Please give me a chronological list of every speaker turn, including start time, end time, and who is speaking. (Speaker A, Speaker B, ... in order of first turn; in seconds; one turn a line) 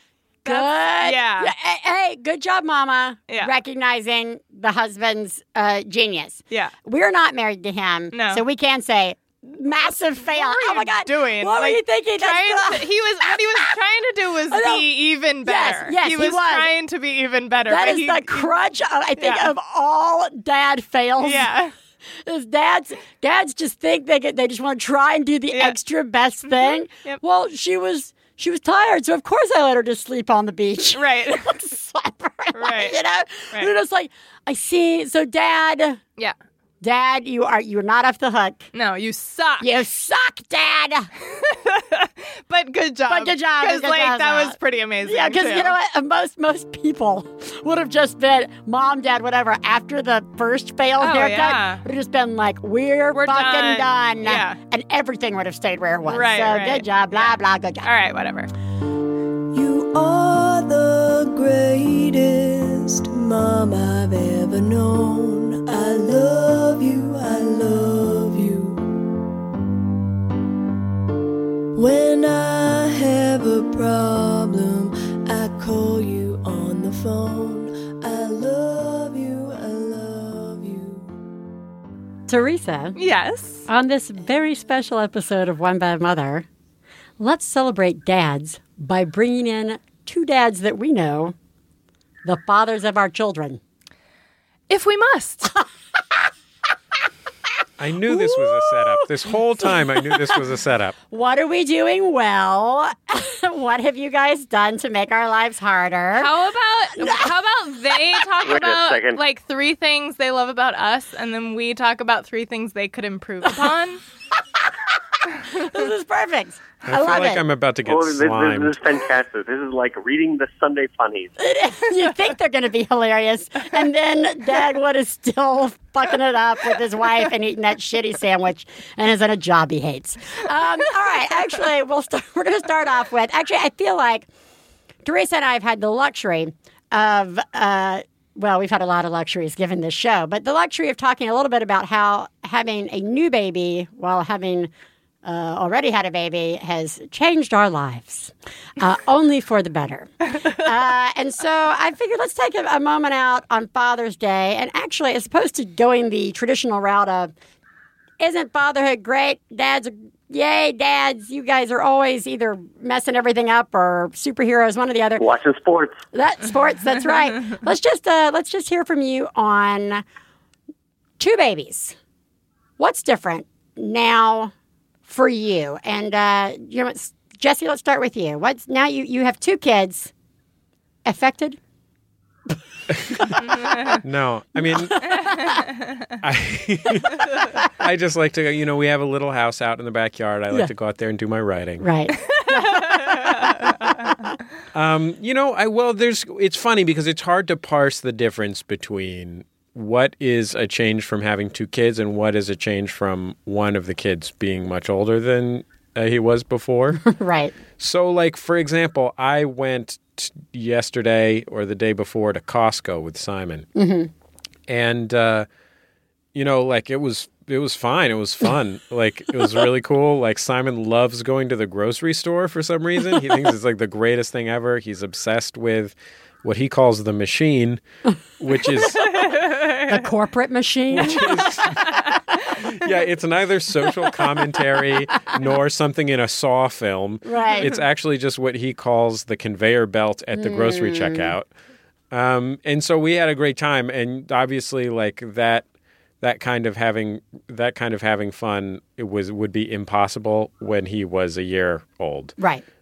Speaker A: 0.5-1.5
Speaker B: 0.5-13.7
Speaker A: 8.1-8.4
Speaker A: 9.8-18.5
Speaker B: 14.5-14.9
Speaker B: 15.4-16.7
Speaker B: 17.7-21.5
Speaker A: 19.2-19.5
Speaker A: 21.2-21.7
Speaker B: 22.2-36.0
Speaker A: 25.5-25.8
Speaker A: 26.5-27.2
Speaker A: 30.9-31.6
Speaker A: 32.5-33.0
Speaker B: 36.8-38.7
Speaker A: 38.7-39.7
Speaker B: 39.6-41.1
Speaker A: 41.3-45.8
Speaker B: 43.1-57.9
Speaker A: 51.0-51.8
Speaker A: 53.1-54.6
Speaker A: 56.1-58.5
Speaker C: 59.5-68.9
Speaker C: 71.8-81.1
Speaker B: 82.3-83.0
Speaker A: 83.0-83.7
Speaker B: 83.7-86.5
Speaker B: 87.2-91.3
Speaker B: 92.2-93.6
Speaker A: 94.7-95.5
Speaker D: 97.8-101.0
Speaker B: 98.1-99.0
Speaker B: 101.1-106.3
Speaker A: 106.2-114.0
Speaker B: 107.0-107.3
Speaker E: 108.4-109.2
Speaker B: 115.5-117.4
Speaker D: 116.8-118.8
Speaker E: 117.9-121.3
Speaker B: 121.4-134.3
Speaker B: 135.1-144.7
Speaker B: 145.2-157.3
Speaker B: 158.2-165.2
Speaker E: 165.2-166.0
Speaker B: 166.1-170.0
Speaker B: 171.2-171.9
Speaker B: 172.8-174.5
Speaker B: 175.1-180.1
Speaker B: 181.1-181.6
Speaker D: 183.0-183.3
Speaker A: 183.5-183.9
Speaker D: 184.0-185.2
Speaker B: 185.0-185.4
Speaker A: 185.1-186.2
Speaker D: 186.2-191.8
Speaker B: 191.8-193.6
Speaker A: 192.3-194.2
Speaker D: 194.7-207.1
Speaker B: 207.0-207.5
Speaker D: 207.8-213.7
Speaker B: 213.8-214.1
Speaker D: 214.7-215.5
Speaker D: 216.3-227.8
Speaker D: 228.4-229.1
Speaker A: 229.0-230.0
Speaker B: 229.8-231.2
Speaker D: 230.9-241.5
Speaker B: 237.2-237.7
Speaker B: 240.3-241.3
Speaker D: 242.1-245.7
Speaker D: 246.2-252.4
Speaker B: 252.4-252.6